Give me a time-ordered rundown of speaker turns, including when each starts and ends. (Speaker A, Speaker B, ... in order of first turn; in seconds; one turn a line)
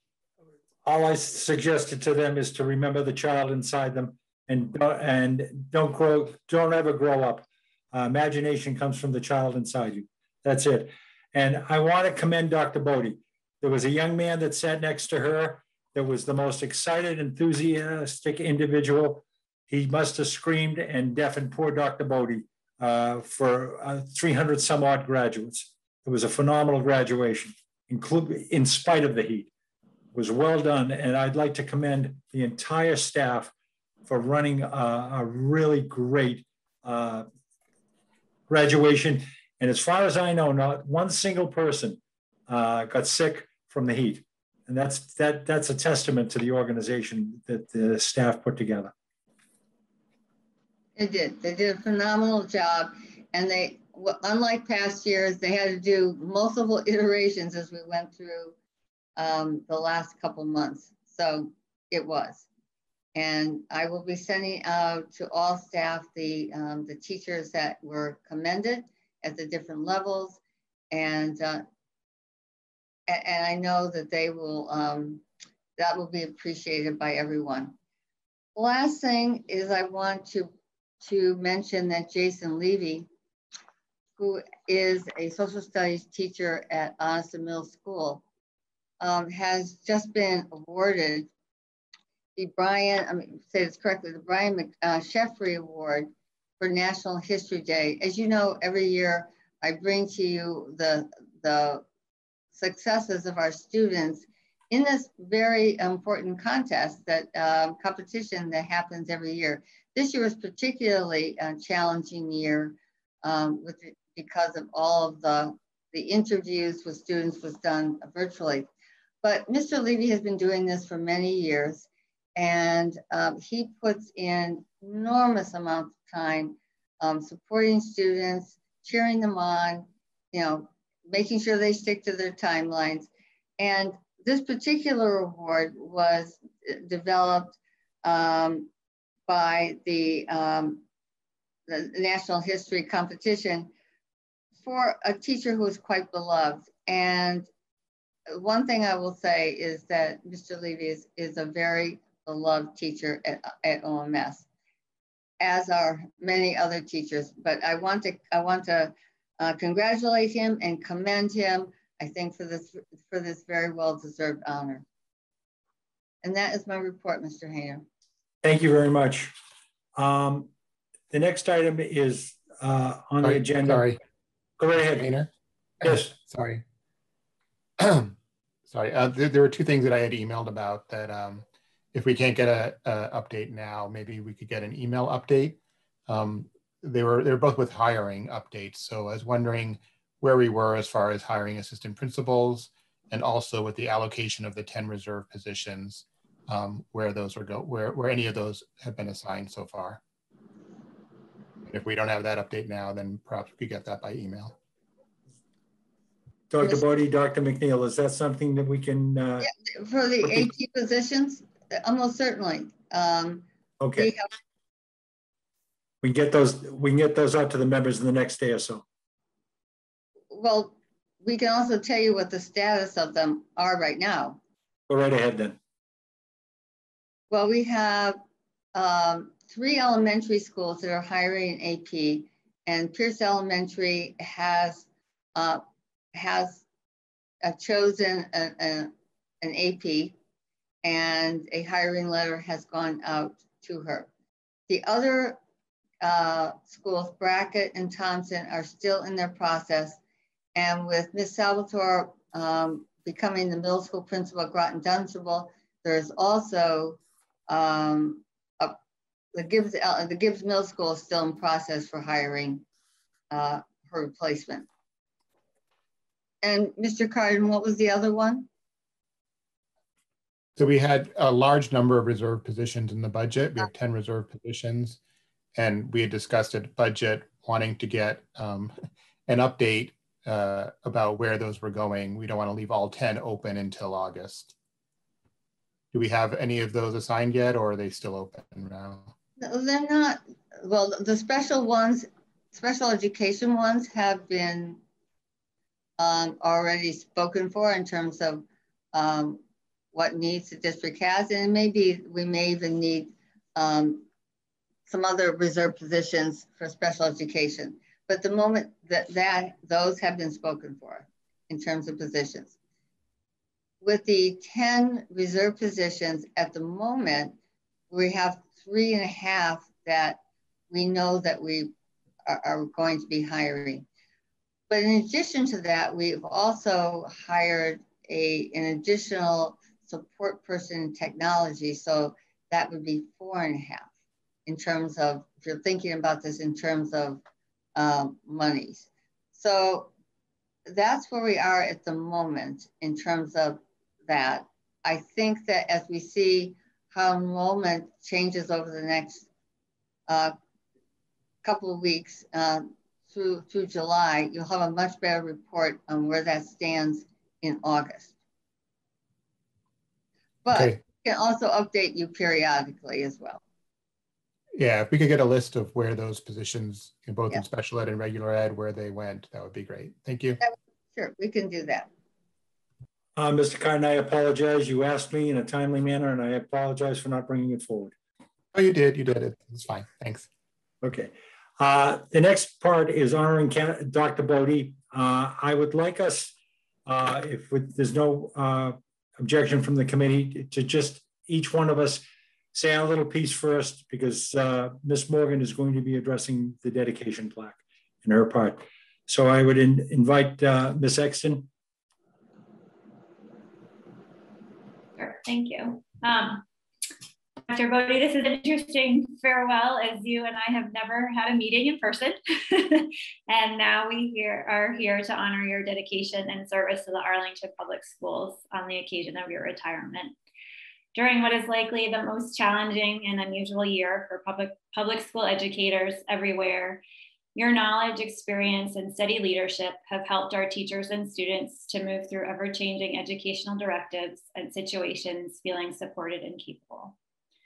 Speaker A: 0.8-29.5
Speaker A: 30.1-33.5
Speaker A: 34.1-37.2
Speaker A: 38.5-48.9
Speaker B: 51.0-58.5
Speaker B: 59.2-62.5
Speaker B: 63.1-70.4
Speaker B: 70.9-71.6
Speaker B: 73.1-75.2
Speaker B: 75.8-77.7
Speaker B: 78.6-83.1
Speaker B: 84.2-88.2
Speaker B: 89.0-91.3
Speaker B: 92.4-101.8
Speaker B: 102.5-118.7
Speaker B: 119.2-138.7
Speaker B: 139.3-140.8
Speaker B: 141.7-143.7
Speaker B: 144.6-147.5
Speaker B: 148.3-154.5
Speaker B: 155.4-164.8
Speaker B: 166.2-167.8
Speaker A: 168.4-169.3
Speaker A: 170.0-170.5
Speaker A: 171.1-173.8
Speaker C: 173.2-174.0
Speaker A: 174.6-175.1
Speaker C: 175.0-175.3
Speaker C: 175.8-176.6
Speaker A: 175.8-176.1
Speaker C: 177.8-178.2
Speaker C: 178.7-200.0
Speaker C: 201.7-204.6
Speaker A: 206.5-209.5
Speaker B: 206.6-206.9
Speaker B: 209.4-214.3
Speaker A: 210.2-210.5
Speaker A: 213.8-214.1
Speaker A: 216.0-218.8
Speaker B: 220.3-224.4
Speaker A: 224.9-225.6
Speaker B: 227.3-228.2
Speaker B: 228.8-235.6
Speaker B: 236.2-236.6
Speaker B: 237.4-240.1
Speaker B: 240.8-244.1
Speaker B: 244.7-245.4
Speaker B: 246.0-250.0
Speaker B: 250.6-258.8
Speaker B: 259.3-262.6
Speaker B: 263.3-264.7
Speaker B: 266.4-268.5
Speaker C: 270.6-275.0
Speaker C: 275.6-278.8
Speaker C: 279.3-284.5
Speaker C: 285.9-289.1
Speaker B: 289.4-294.8
Speaker B: 296.0-299.4
Speaker B: 299.9-304.1
Speaker B: 304.9-312.6
Speaker B: 313.8-317.4
Speaker B: 317.9-320.2
Speaker B: 320.7-321.7
Speaker B: 322.3-323.9
Speaker B: 324.7-333.9
Speaker B: 334.5-337.2
Speaker B: 337.8-339.9
Speaker B: 340.7-349.3
Speaker B: 350.1-350.4
Speaker B: 351.4-358.1
Speaker B: 360.4-363.4
Speaker C: 360.5-360.8
Speaker C: 364.6-370.4
Speaker B: 370.4-371.9
Speaker A: 373.2-377.9
Speaker C: 378.5-380.3
Speaker A: 380.8-386.3
Speaker A: 386.9-401.5
Speaker D: 405.0-406.4
Speaker D: 407.5-420.1
Speaker D: 420.9-426.8
Speaker D: 427.4-437.0